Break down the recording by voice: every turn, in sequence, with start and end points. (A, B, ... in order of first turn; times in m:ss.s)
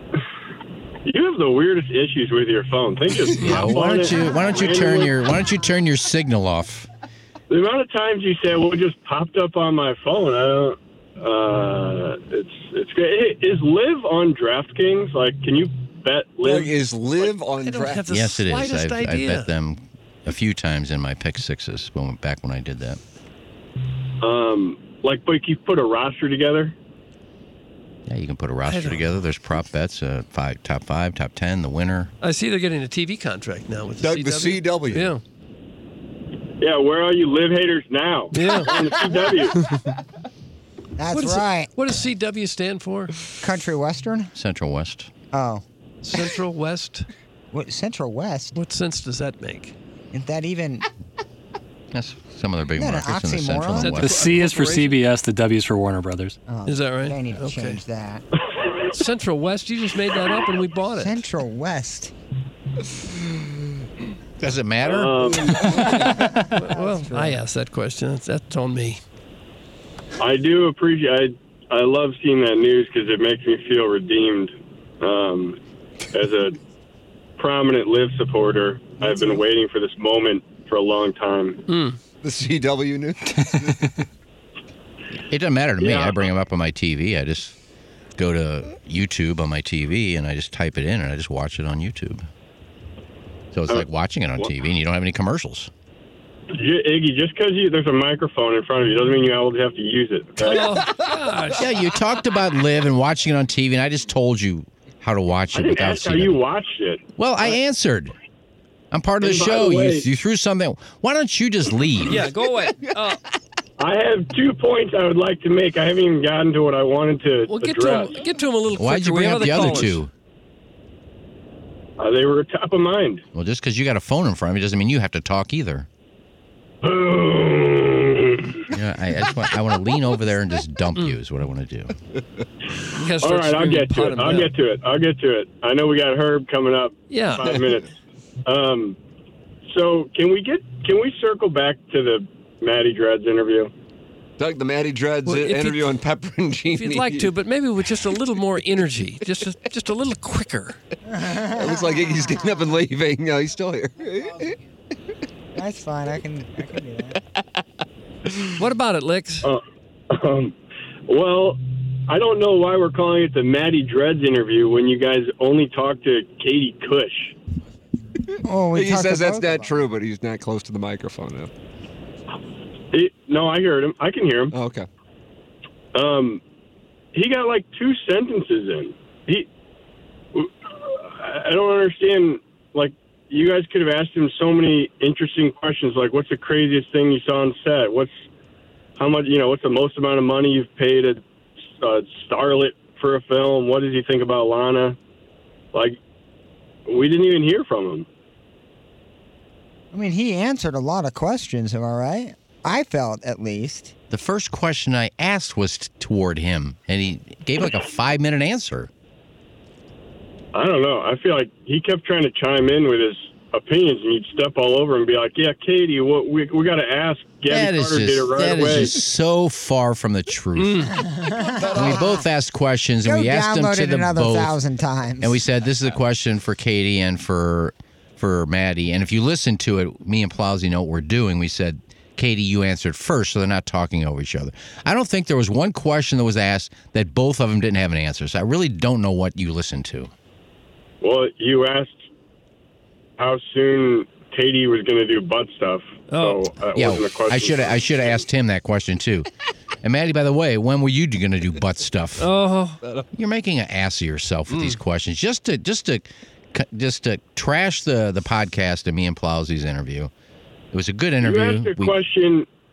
0:01.0-0:05.2 A
0:03.4-0:06.9 B
0:07.5-0:17.3 A
0:16.4-0:18.1 C
0:17.6-0:19.5 D
0:18.1-0:23.0 B
0:24.2-0:26.8 A
0:28.1-0:32.1 B
0:28.7-0:29.1 D
0:32.2-0:35.2 D
0:34.0-0:35.1 C
0:36.6-0:39.6 A
0:38.3-0:38.8 D
0:39.6-0:39.8 D
0:41.0-0:41.7 E
0:41.1-0:43.1 D
0:43.4-0:44.3 E
0:44.4-0:45.1 B
0:45.3-0:46.2 E
0:46.0-0:47.1 D
0:47.5-0:48.6 E
0:48.6-0:49.8 D
0:50.1-0:50.9 E
0:51.9-0:54.1 B
0:52.8-0:54.1 E
0:53.8-0:55.0 D
0:54.0-0:56.4 F
0:56.5-0:58.2 E
0:56.7-0:57.8 D
0:58.9-1:01.3 D
1:00.9-1:02.1 E
1:04.4-1:05.6 B
1:04.8-1:05.8 A
1:05.8-1:09.0 D
1:05.9-1:07.4 E
1:10.2-1:15.6 A
1:16.1-1:16.6 A
1:17.4-1:21.6 A
1:21.7-1:22.0 D
1:22.2-1:24.0 C
1:25.3-1:27.6 B
1:25.8-1:26.3 A
1:28.2-1:32.2 B
1:33.5-1:35.7 B
1:36.5-1:40.9 A
1:40.4-1:41.7 D
1:41.6-1:46.4 B
1:45.5-1:47.0 A
1:47.2-1:48.1 B
1:48.9-1:52.2 B
1:49.2-1:50.1 A
1:52.1-1:53.2 D
1:53.8-1:58.2 A
1:57.5-2:00.0 D
1:58.7-2:00.1 B
2:02.0-2:03.2 A
2:03.3-2:05.9 B
2:06.8-2:08.7 A
2:08.7-2:12.0 B
2:12.9-2:14.5 D
2:13.2-2:17.9 A
2:17.1-2:17.6 D
2:18.4-2:19.0 A
2:19.7-2:23.7 A
2:24.4-2:27.3 C
2:25.3-2:26.0 D
2:26.7-2:30.8 D
2:31.1-2:32.1 E
2:31.4-2:34.6 C
2:35.6-2:37.2 E
2:38.6-2:39.5 D
2:39.4-2:40.6 A
2:41.1-2:47.4 A
2:48.4-2:49.7 E
2:48.7-2:51.5 C
2:52.9-2:54.6 A
2:54.5-2:54.9 C
2:55.9-2:56.4 A
2:57.1-2:59.5 A
3:00.3-3:08.3 A
3:09.0-3:11.2 A
3:11.8-3:15.0 A
3:15.7-3:16.0 A
3:16.9-3:18.1 A
3:19.9-3:23.9 E
3:24.1-3:28.9 B
3:30.5-3:39.0 A
3:37.5-3:41.2 B
3:40.6-3:41.1 D
3:41.0-3:42.2 E
3:41.4-3:42.2 C
3:41.7-3:44.6 B
3:43.0-3:45.4 E
3:45.2-4:00.1 B
4:01.0-4:02.0 A
4:03.2-4:07.8 A
4:06.1-4:06.5 D
4:06.8-4:09.3 B
4:09.8-4:12.3 B
4:12.2-4:12.8 D
4:13.1-4:20.1 B
4:14.5-4:14.8 D
4:20.7-4:22.0 B
4:21.2-4:22.5 A